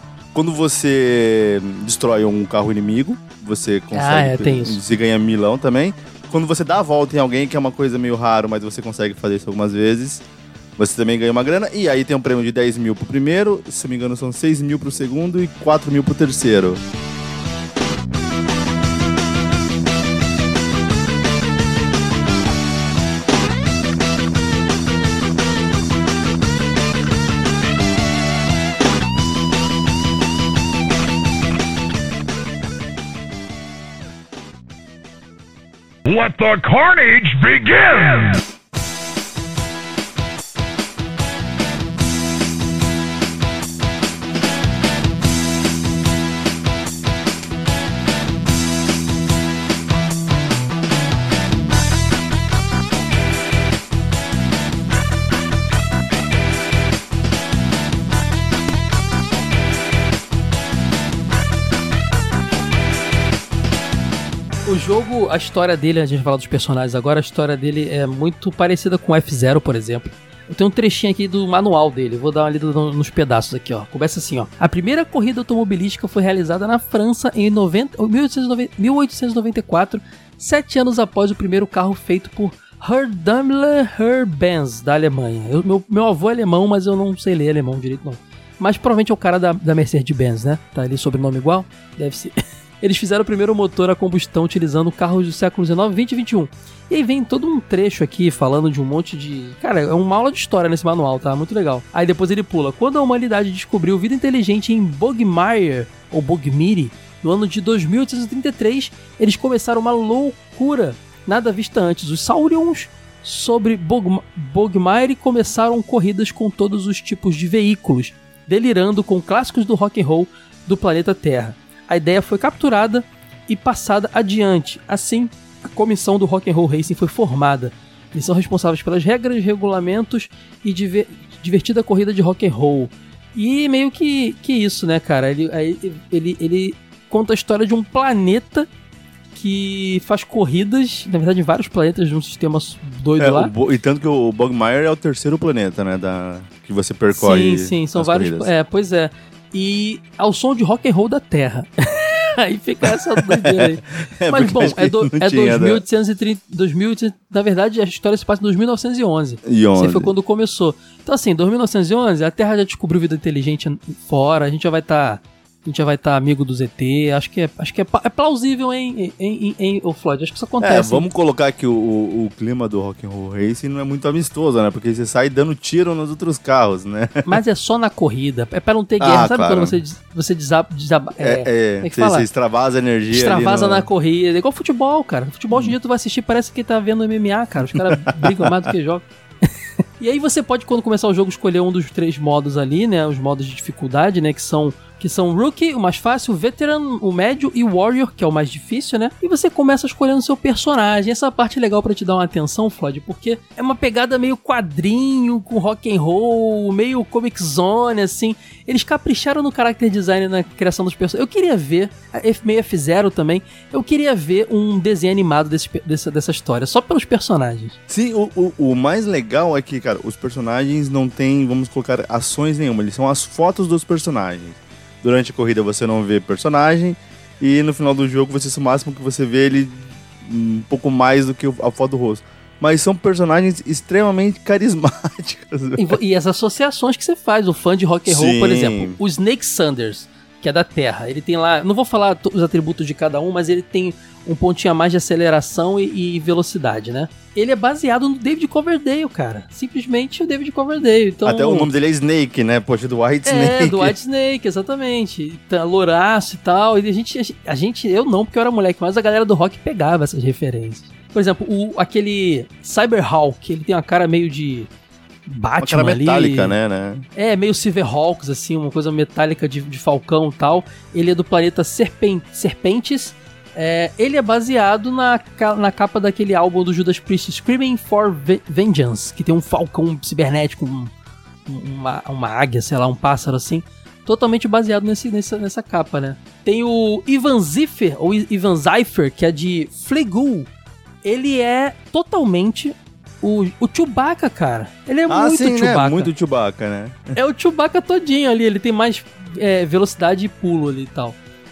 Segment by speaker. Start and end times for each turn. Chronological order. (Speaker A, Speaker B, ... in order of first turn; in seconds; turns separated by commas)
Speaker A: 0.3-10.2, Speaker B: 3.9-4.8, Speaker A: 10.8-16.8, Speaker C: 36.0-38.4, Speaker B: 64.7-138.7, Speaker B: 139.3-143.5, Speaker A: 143.2-148.5, Speaker B: 147.1-171.1, Speaker A: 152.8-155.8, Speaker A: 159.4-160.1, Speaker A: 170.6-177.4, Speaker B: 177.2-182.3, Speaker A: 179.0-179.8, Speaker A: 181.2-183.9, Speaker B: 183.1-189.1, Speaker A: 187.7-188.7, Speaker B: 190.0-217.8, Speaker A: 217.9-236.0, Speaker B: 235.8-251.7, Speaker A: 238.1-239.0, Speaker A: 251.2-253.9, Speaker B: 253.2-264.7, Speaker B: 265.3-266.6, Speaker A: 265.6-267.1, Speaker B: 267.1-280.9, Speaker B: 281.5-290.5, Speaker B: 291.0-296.1, Speaker A: 295.1-297.1, Speaker B: 297.1-301.2